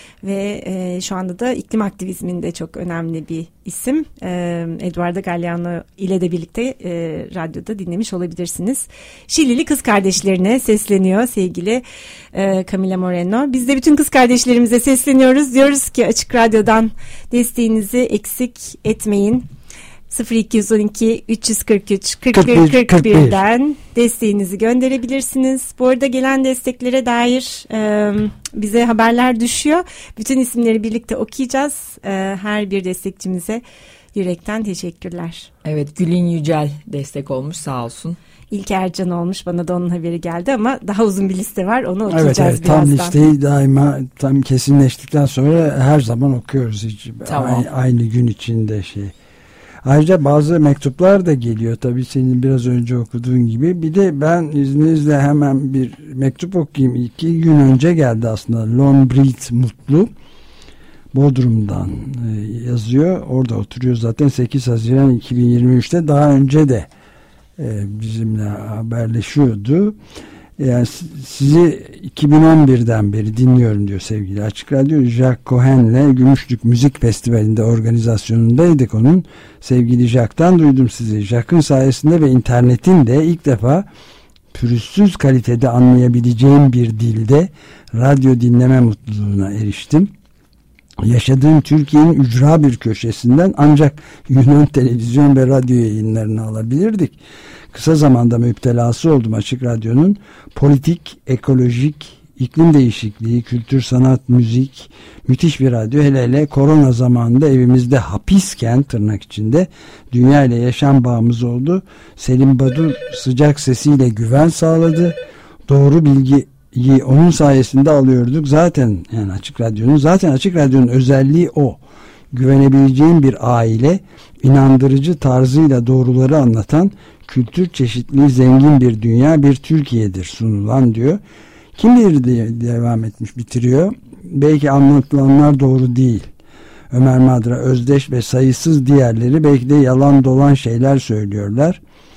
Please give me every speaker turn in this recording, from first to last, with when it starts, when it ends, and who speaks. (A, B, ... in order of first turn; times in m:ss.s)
0:00.2-0:19.5 A
0:20.1-0:33.6 A
0:22.3-0:23.4 B
0:34.1-0:35.5 A
0:35.6-0:38.2 C
0:38.5-0:43.2 A
0:42.1-0:49.1 B
0:47.2-0:47.6 C
0:49.8-1:00.1 B
1:01.1-1:06.9 B
1:07.6-1:10.0 B
1:10.6-1:23.8 B
1:24.5-1:30.1 B
1:31.0-1:37.2 B
1:37.7-1:55.1 B
1:55.7-2:01.8 B
2:02.3-2:11.2 B
2:11.8-2:16.3 B
2:16.9-2:21.8 B